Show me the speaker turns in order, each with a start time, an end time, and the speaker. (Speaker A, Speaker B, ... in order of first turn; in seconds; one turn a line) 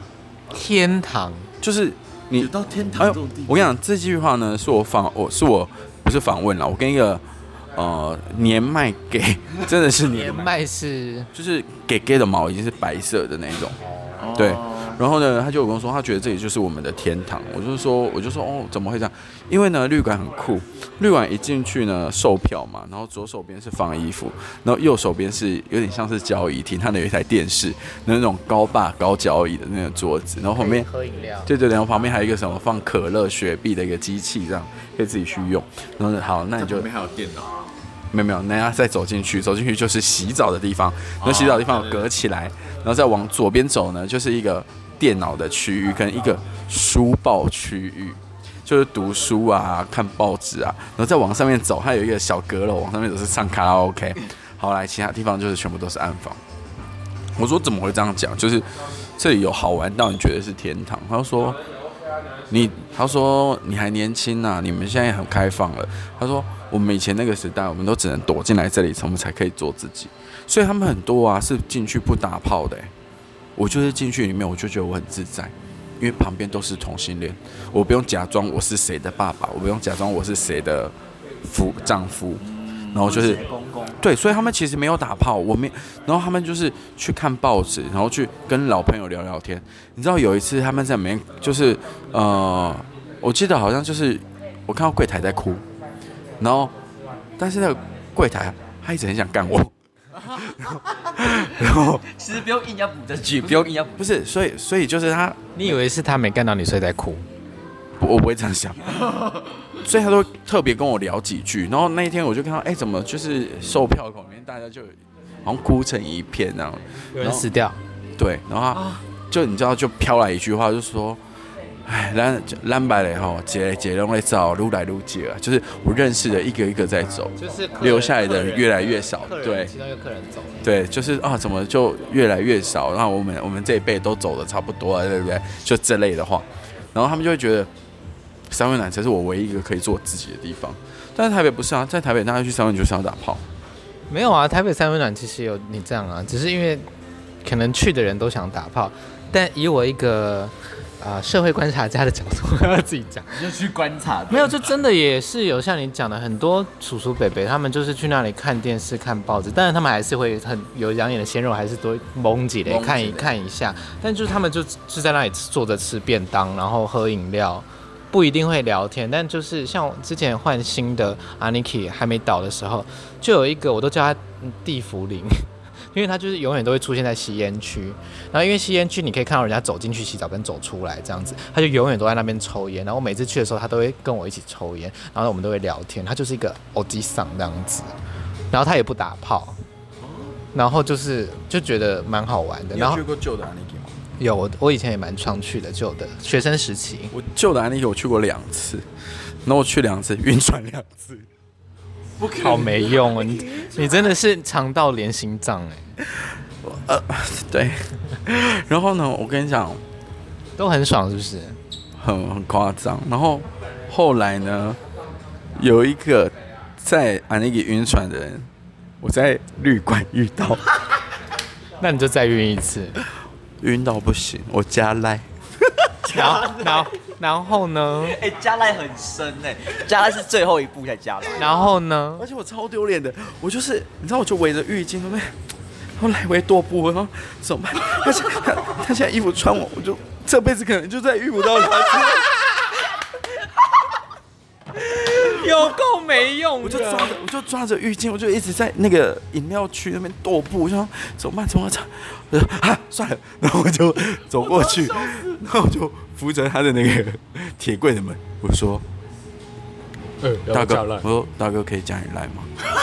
Speaker A: 0.5-1.5
Speaker B: 1.6-10.5
Speaker C: 2.4-3.7
Speaker A: 10.1-11.3
Speaker B: 11.3-13.8
Speaker C: 14.2-15.0
Speaker B: 14.3-30.9
Speaker A: 30.6-31.5
Speaker B: 31.5-36.9
Speaker C: 36.6-37.5
Speaker B: 38.1-56.4
Speaker C: 41.2-42.1
Speaker B: 57.4-61.6
Speaker B: 62.5-72.9
Speaker B: 73.6-83.4
Speaker C: 82.4-83.1
Speaker D: 83.0-84.0
Speaker B: 84.0-95.6
Speaker B: 96.4-96.7
Speaker B: 97.4-102.0
Speaker D: 102.0-104.0
Speaker B: 104.0-105.8
Speaker A: 105.6-107.2
Speaker B: 108.0-109.2
Speaker B: 109.8-117.5
Speaker A: 117.2-117.8
Speaker B: 118.2-121.2
Speaker B: 121.9-129.7
Speaker A: 127.4-130.7
Speaker B: 130.6-137.7
Speaker B: 138.5-143.4
Speaker A: 144.1-146.8
Speaker A: 147.4-153.5
Speaker C: 153.3-154.7
Speaker A: 154.3-187.9
Speaker B: 162.7-163.3
Speaker A: 188.5-189.6
Speaker A: 190.5-193.0
Speaker B: 192.7-194.0
Speaker A: 194.2-197.1
Speaker B: 197.1-198.9
Speaker B: 199.4-201.3
Speaker C: 202.2-203.9
Speaker A: 202.3-205.9
Speaker B: 206.0-209.8
Speaker A: 210.6-211.6
Speaker B: 212.0-214.8
Speaker B: 215.6-218.5
Speaker B: 219.0-220.6
Speaker A: 221.8-223.0
Speaker B: 223.6-225.3
Speaker D: 226.1-226.9
Speaker A: 226.1-228.2
Speaker D: 228.1-231.6
Speaker A: 231.3-232.3
Speaker B: 232.2-235.3
Speaker B: 236.0-242.3
Speaker A: 241.9-242.7
Speaker A: 244.8-247.2
Speaker B: 246.6-258.9
Speaker A: 260.2-260.8
Speaker B: 260.5-262.5